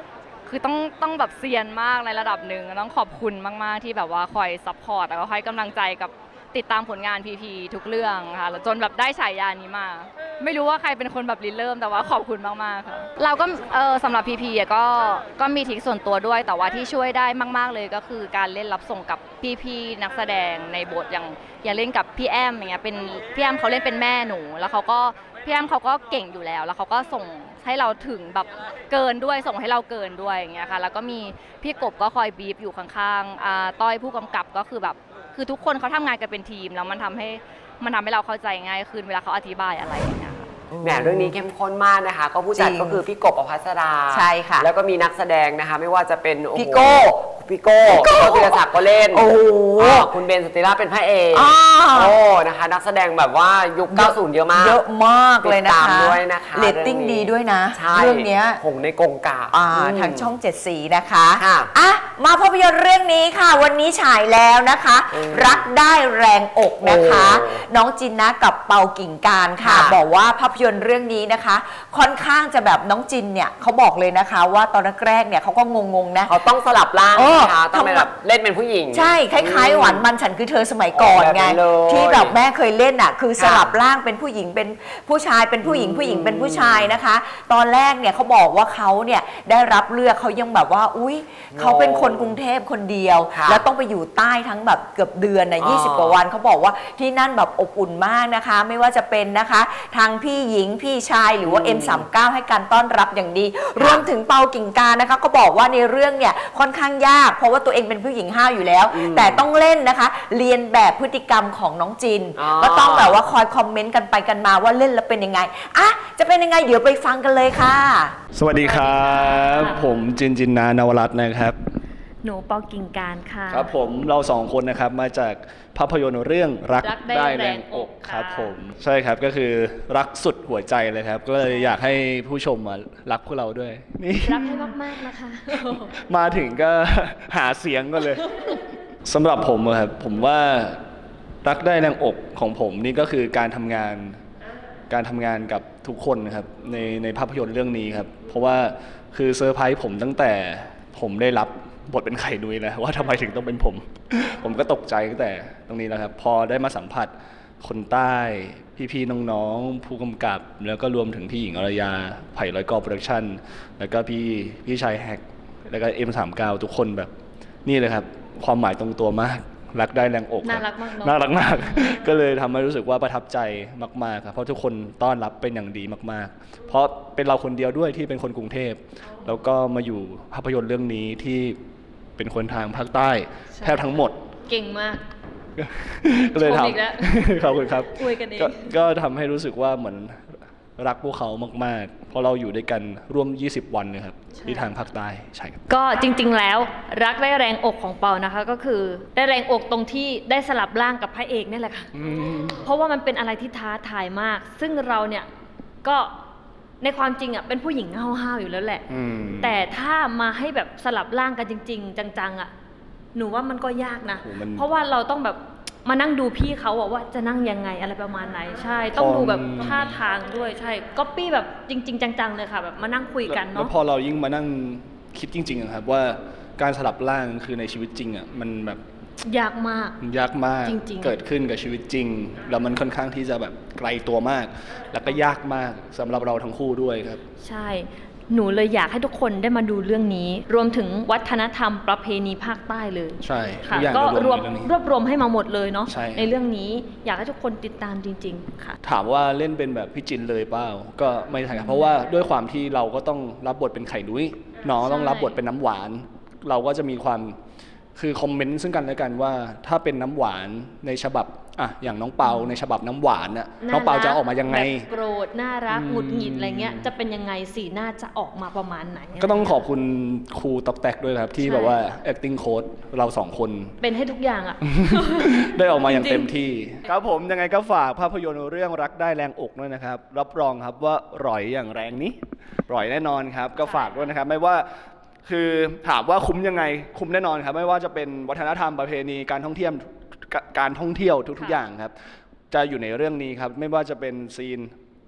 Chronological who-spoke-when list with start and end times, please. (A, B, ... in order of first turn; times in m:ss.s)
0:00.5-0:40.4 A
0:40.8-0:41.3 B
0:40.8-0:54.8 C
0:42.6-0:43.0 B
0:44.1-0:44.7 B
0:46.5-0:47.1 B
0:47.9-0:50.1 B
0:51.3-0:52.1 B
0:53.9-0:58.6 B
0:55.4-1:00.3 C
0:59.5-1:16.4 B
1:01.4-1:01.7 C
1:05.1-1:05.6 C
1:06.8-1:07.6 C
1:09.6-1:10.0 C
1:16.2-1:20.0 C
1:17.1-1:18.1 B
1:18.9-1:58.1 B
1:20.9-1:22.4 C
1:23.3-1:23.8 C
1:25.6-1:27.0 C
1:31.5-1:32.4 C
1:33.3-1:33.6 C
1:35.6-1:36.2 C
1:41.4-1:42.0 C
1:43.8-1:44.1 C
1:48.9-1:49.4 C
1:52.4-1:53.3 C
1:58.3-2:01.6 D
1:58.7-1:59.7 E
2:02.2-2:03.7 E
2:03.5-2:20.8 D
2:06.8-2:08.5 E
2:14.2-2:15.6 E
2:21.4-2:24.2 D
2:24.9-2:47.1 D
2:47.6-3:01.6 D
2:50.4-2:51.1 E
3:02.2-3:04.2 D
3:03.6-3:03.8 E
3:04.4-3:05.0 E
3:05.6-3:10.2 D
3:06.4-3:07.0 E
3:08.0-3:08.5 E
3:10.8-3:15.7 D
3:15.7-3:21.9 E
3:21.9-3:22.7 D
3:22.7-3:25.3 E
3:25.8-3:26.1 E
3:26.8-3:28.8 E
3:28.9-3:29.6 D
3:29.4-3:32.5 E
3:33.2-3:43.7 E
3:34.1-3:34.7 D
3:38.9-3:40.0 D
3:39.6-3:40.0 A
3:43.2-3:48.8 D
3:49.3-3:50.0 E
3:50.0-3:57.2 D
3:50.7-3:51.1 E
3:57.4-4:08.8 E
4:03.2-4:04.7 D
4:05.9-4:06.3 D
4:08.8-4:17.4 D
4:14.9-4:15.3 E
4:18.0-4:24.9 D
4:23.6-4:29.6 E
4:25.7-4:26.9 D
4:29.1-4:33.8 D
4:31.5-4:31.7 E
4:33.8-4:35.2 E
4:34.6-4:42.2 D
4:36.0-4:36.2 E
4:42.7-4:44.6 D
4:45.2-4:51.9 D
4:52.5-4:54.7 D